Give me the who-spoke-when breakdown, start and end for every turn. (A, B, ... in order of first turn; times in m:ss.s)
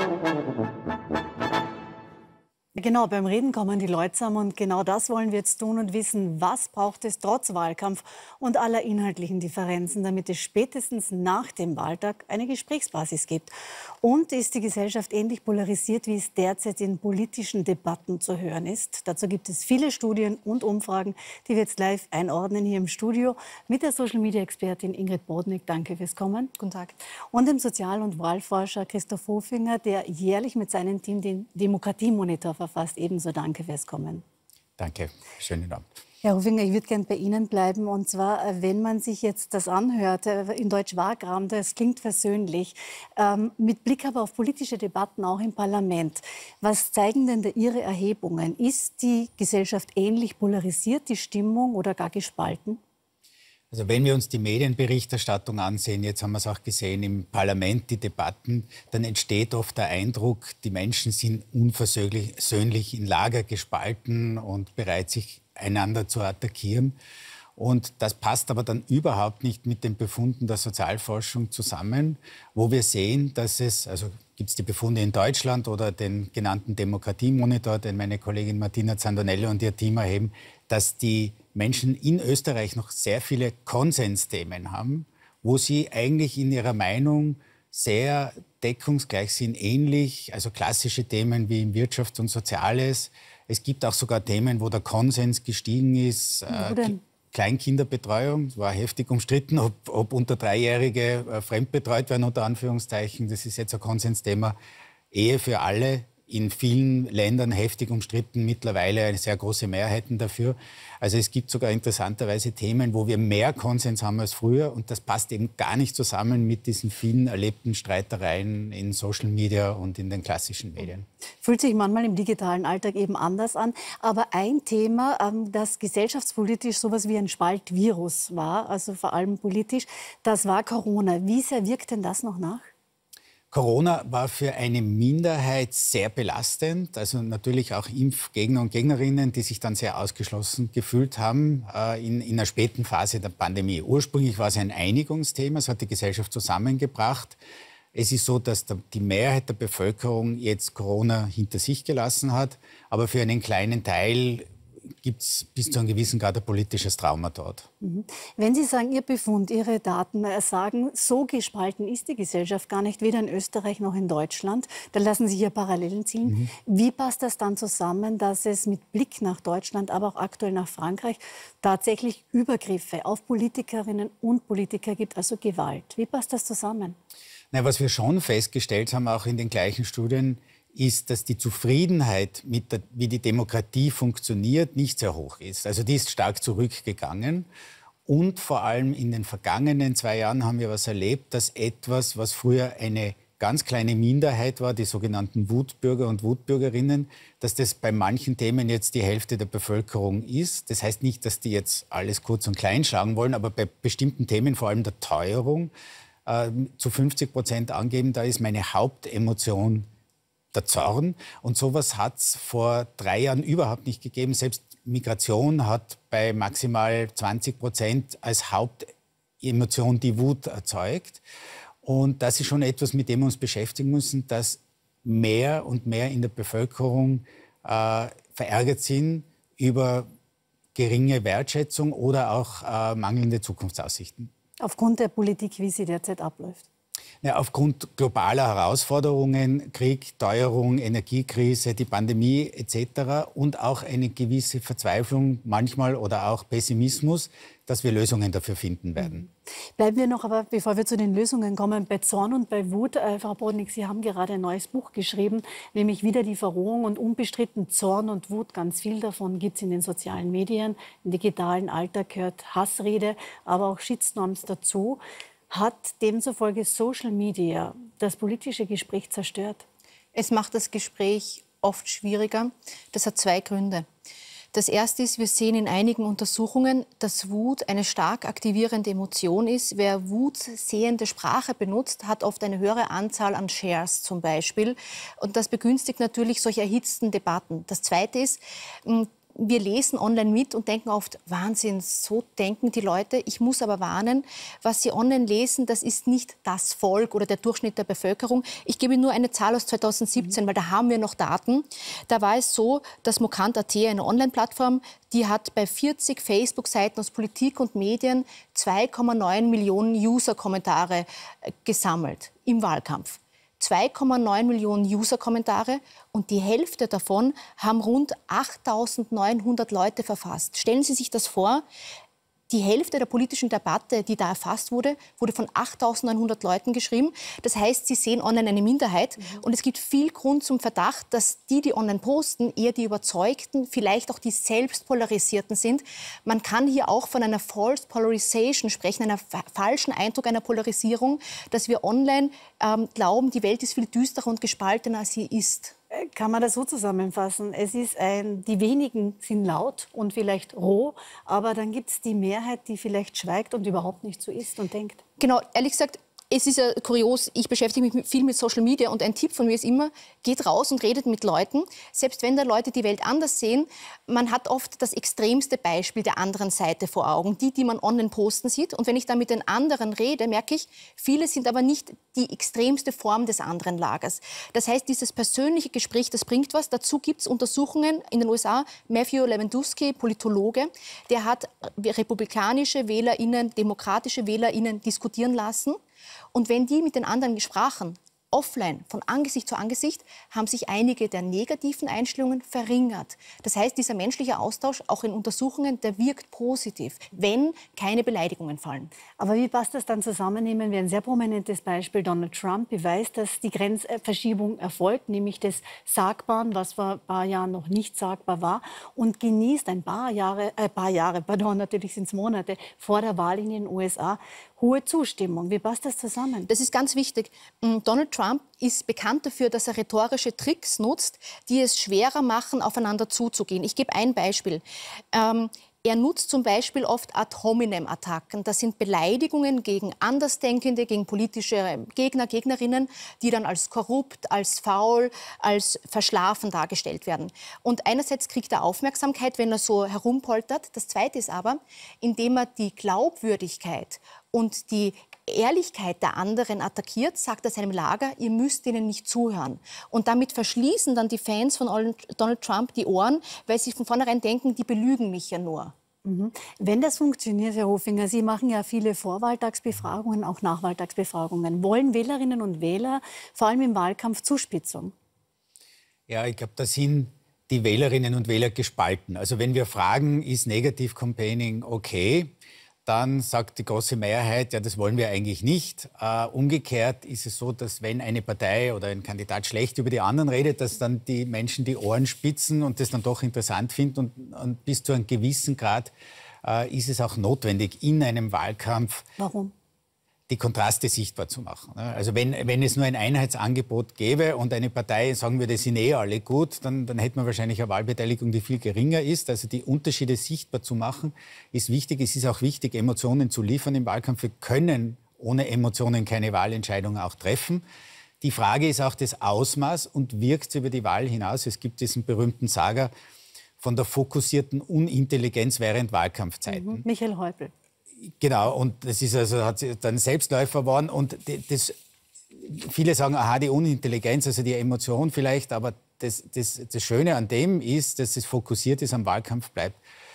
0:02.8-0:26.5 A
0:26.6-0:27.0 B
0:27.3-0:34.2 A
0:34.8-0:35.9 C
0:36.2-0:52.8 A
0:53.7-1:07.0 C
1:07.6-1:44.6 C
1:36.5-1:37.0 A
1:45.1-2:01.1 C
2:01.4-2:12.7 A
2:13.5-2:27.4 C
2:27.9-2:34.5 C
2:35.0-2:37.7 C
2:37.8-2:57.0 A
2:46.2-2:46.5 C
2:57.5-3:07.5 C
3:08.1-3:25.7 C
3:26.3-3:29.9 C
3:30.5-3:41.2 C
3:41.8-3:50.1 C
3:50.8-3:54.3 C
3:54.6-3:56.7 A
3:57.2-4:09.3 C
4:09.0-4:29.6 A
4:30.2-4:33.9 B
4:34.5-5:11.1 B
5:11.6-5:21.6 B
5:22.5-5:45.8 B
5:45.9-5:55.0 A
5:55.2-6:25.8 B
6:26.3-6:38.9 B
6:39.2-6:56.5 A
6:56.5-7:35.7 B
7:36.0-7:44.9 A
7:46.1-7:52.3 C
7:52.9-8:05.9 C
8:06.4-8:09.1 C
8:09.2-8:09.5 A
8:10.3-8:27.6 C
8:28.2-8:32.9 C
8:33.6-8:36.9 C
8:36.5-8:37.5 A
8:38.0-8:41.8 C
8:42.3-8:49.8 C